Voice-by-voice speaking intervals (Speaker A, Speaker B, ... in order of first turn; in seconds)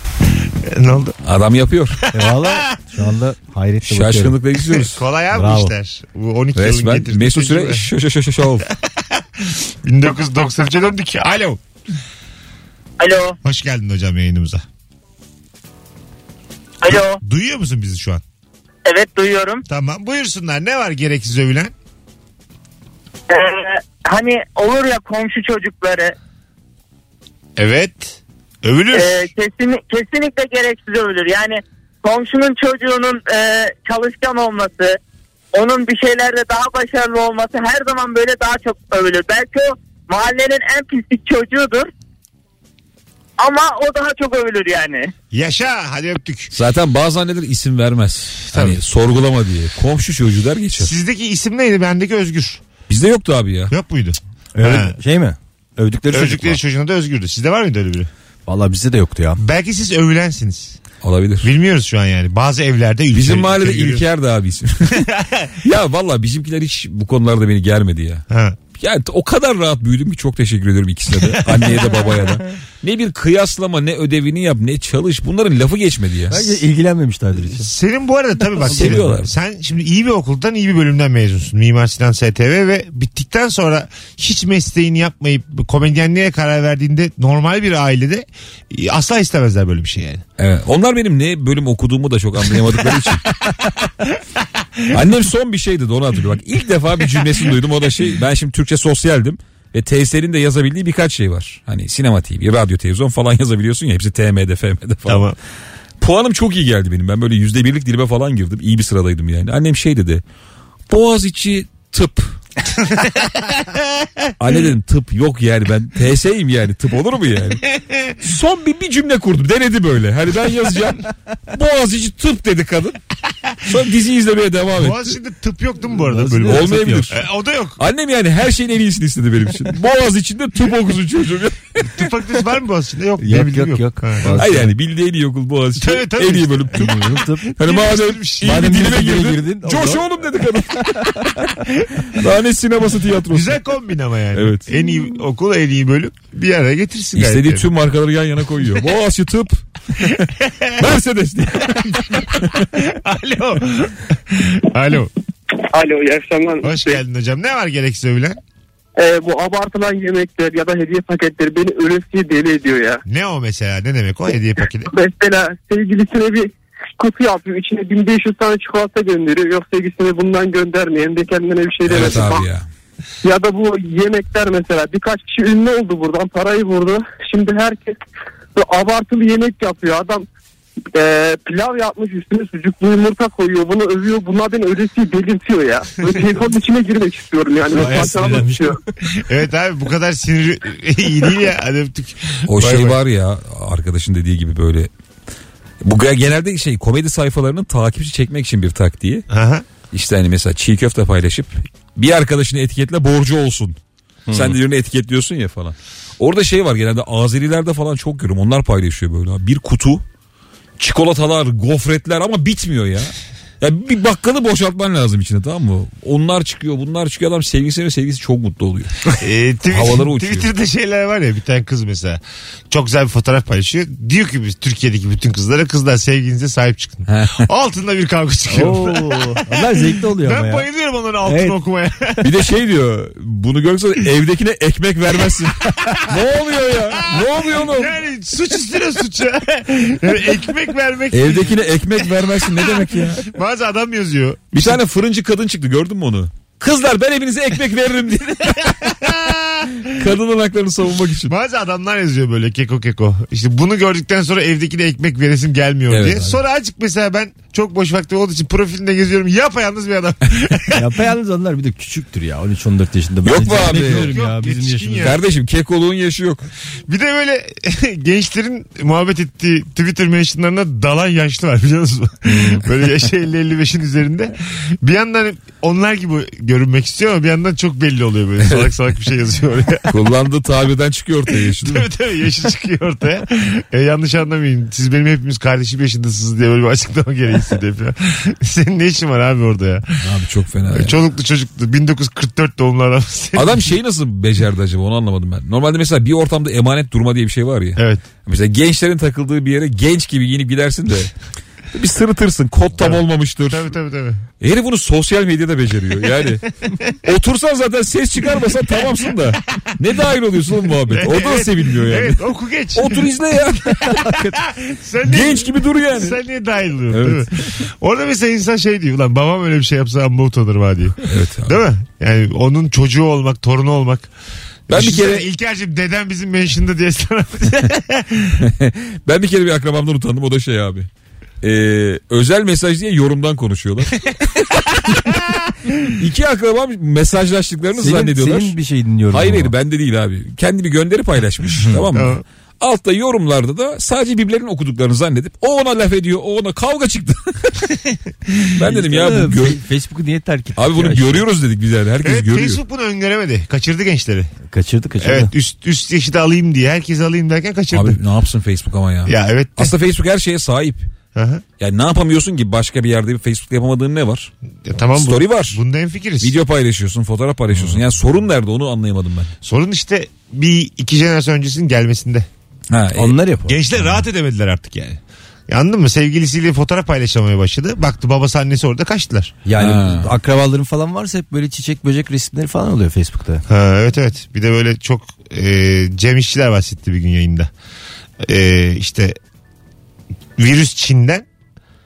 Speaker A: 0.6-1.2, 2.2-2.8, 4.6-7.9, 8.6-11.6, 13.4-14.6, 16.9-18.2, 19.7-21.7, 27.6-29.3, 45.3-46.5, 48.5-48.8, 50.8-52.6, 53.7-55.0, 56.1-58.1, 59.4-60.8, 61.4-64.1, 64.9-65.6, 68.3-68.6, 71.3-72.2, 77.5-90.2, 105.0-105.4, 112.8-114.3, 117.8-118.1, 124.7-127.8, 131.8-134.4, 135.8-138.7, 143.3-147.7, 150.4-150.8, 151.9-155.1, 156.6-158.4, 163.1-164.9, 189.1-193.0, 199.3-199.7, 219.2-232.3, 235.8-236.2, 237.0-241.6, 242.2-244.8, 248.6-250.1, 251.2-260.9, 263.8-265.2, 266.9-280.0, 281.6-290.0, 290.7-293.7, 297.8-298.1, 302.8-304.2, 309.3-309.7, 310.9-313.1, 313.8-324.1, 324.7-328.4, 335.2-335.7, 341.9-342.2, 352.0-354.3, 355.0-358.0, 359.1-359.8, 361.1-361.4, 364.6-366.4, 369.4-372.3, 373.5-379.4, 383.5-387.5, 388.2-389.2, 390.4-391.3
Speaker B: 1.2-2.0, 3.9-5.0, 6.6-8.7, 46.5-50.9, 52.9-53.7, 61.0-61.5, 63.1-65.1, 65.6-68.2, 68.8-76.6, 78.6-79.3, 90.4-93.3, 94.9-105.3, 106.0-110.2, 110.9-112.4, 114.4-117.6, 118.2-123.0, 123.6-125.2, 126.5-127.2, 127.8-132.1, 134.4-141.5, 142.1-143.6, 144.3-144.7, 147.2-152.6, 171.9-172.7, 192.5-194.9, 195.8-199.3, 199.9-203.8, 204.3-210.0, 210.8-219.2, 219.7-220.5, 227.1-227.5, 232.2-238.0, 241.1-243.3, 244.5-249.2, 249.8-251.3, 255.9-256.4, 263.2-264.1, 265.0-266.4, 279.9-281.9, 290.0-291.0, 293.4-301.1, 301.7-303.7, 304.4-306.5, 307.0-314.3, 315.1-316.2, 316.9-317.6, 321.1-321.6, 324.7-325.3, 328.4-330.9, 331.4-335.2, 335.8-338.6, 339.1-347.8, 348.5-349.6, 350.6-352.6, 357.7-360.9, 361.6-364.3, 365.0-365.6, 366.2-369.3, 372.7-373.2, 379.6-380.1
Speaker C: 2.1-4.4, 5.3-5.7, 54.5-56.6, 58.5-59.4, 76.3-77.7, 78.7-79.0, 125.9-127.1, 133.2-134.7, 136.7-137.5, 138.4-140.1, 140.8-141.5, 187.7-188.8, 204.3-204.6, 228.5-230.7, 231.2-231.6, 260.7-265.2, 272.2-272.6, 337.8-339.5, 348.7-351.2, 354.5-355.3, 367.6-367.8, 372.9-373.6, 379.4-383.4
Speaker D: 13.0-13.4, 16.8-17.2, 18.9-19.6, 23.3-26.1, 28.9-35.0, 35.5-41.9, 43.4-45.1
Speaker E: 155.7-157.0, 159.0-163.0, 164.6-172.5, 173.2-178.0, 178.6-180.3, 180.9-188.8